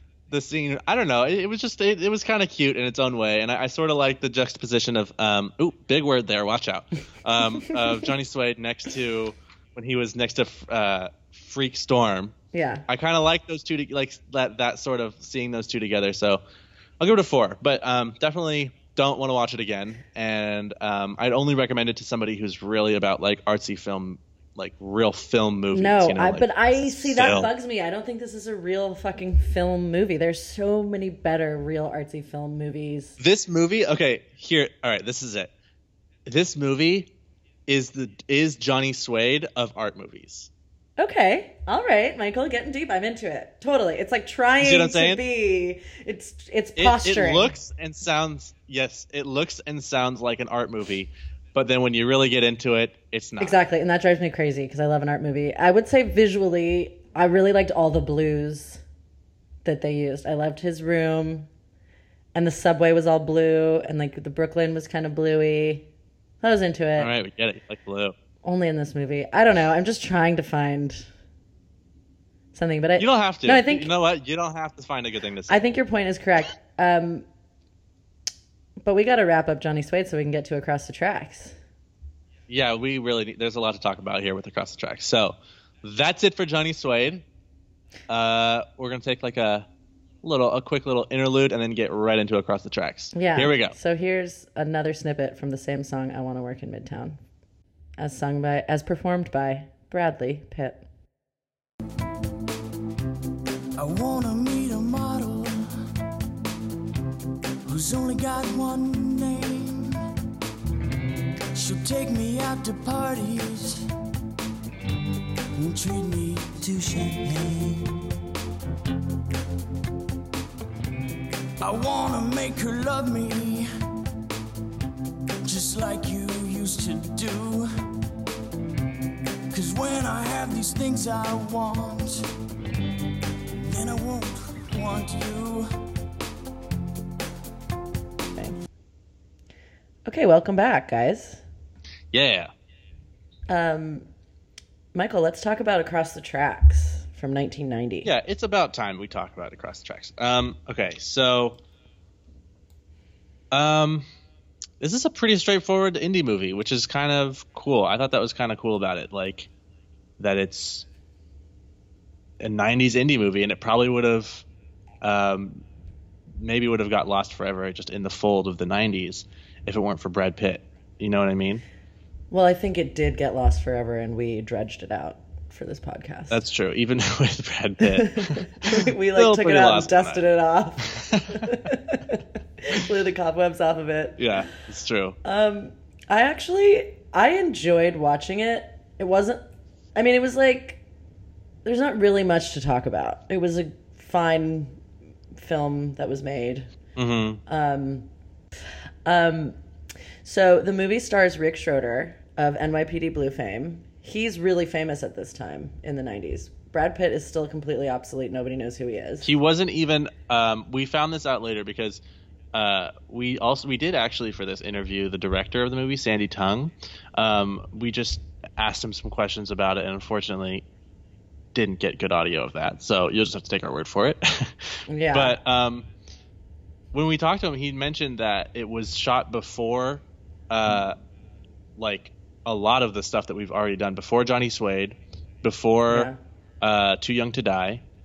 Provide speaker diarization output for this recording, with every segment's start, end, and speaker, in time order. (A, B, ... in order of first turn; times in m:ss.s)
0:00.3-0:12.4 A
0:12.5-0:12.9 B
0:12.9-0:16.4 A
0:17.0-0:27.5 A
0:25.7-0:33.2 B
0:33.2-0:35.5 A
0:36.3-0:37.1 A
0:37.7-0:40.5 A
0:41.0-0:47.5 B
0:44.6-0:45.2 A
0:46.8-0:53.6 A
0:53.4-0:58.8 B
0:59.6-1:01.5 B
1:02.4-1:05.9 B
1:06.4-1:07.1 B
1:07.0-1:08.2 A
1:08.4-1:11.1 B
1:12.5-1:13.9 B
1:13.0-1:15.6 A
1:15.5-1:17.3 B
1:18.8-1:21.6 B
1:22.5-1:27.2 A
1:28.1-1:29.7 A
1:30.2-1:33.8 A
1:33.1-1:37.2 B
1:38.0-1:40.9 B
1:43.8-1:45.9 C
1:47.6-1:50.1 C
1:51.5-1:53.9 C
1:55.6-1:58.0 C
2:01.6-2:03.7 C
2:05.4-2:07.7 C
2:09.5-2:12.3 C
2:13.6-2:15.8 C
2:20.1-2:21.4 B
2:22.1-2:22.5 A
2:23.5-2:24.1 B
2:24.9-2:28.1 B
2:28.0-2:31.6 A
2:33.5-2:34.1 A
2:34.8-2:39.5 A
2:40.2-2:40.9 A
2:42.4-2:44.4 A
2:45.0-2:45.6 A
2:46.4-2:51.6 A
2:52.3-2:56.4 B
2:56.3-3:00.2 A
2:57.8-3:04.5 B
3:00.8-3:01.6 A
3:04.2-3:05.2 A
3:05.2-3:09.4 B
3:10.0-3:10.8 B
3:11.6-3:14.8 B
3:15.3-3:16.7 B
3:17.0-3:17.4 A
3:17.5-3:18.1 B
3:19.1-3:19.6 B
3:20.2-3:29.3 B
3:29.2-3:32.0 A
3:32.5-3:40.6 A
3:41.5-3:45.9 A
3:44.9-3:45.4 B
3:46.9-3:51.0 A
3:51.8-3:56.1 A
3:55.9-3:56.2 B
3:56.6-3:57.8 A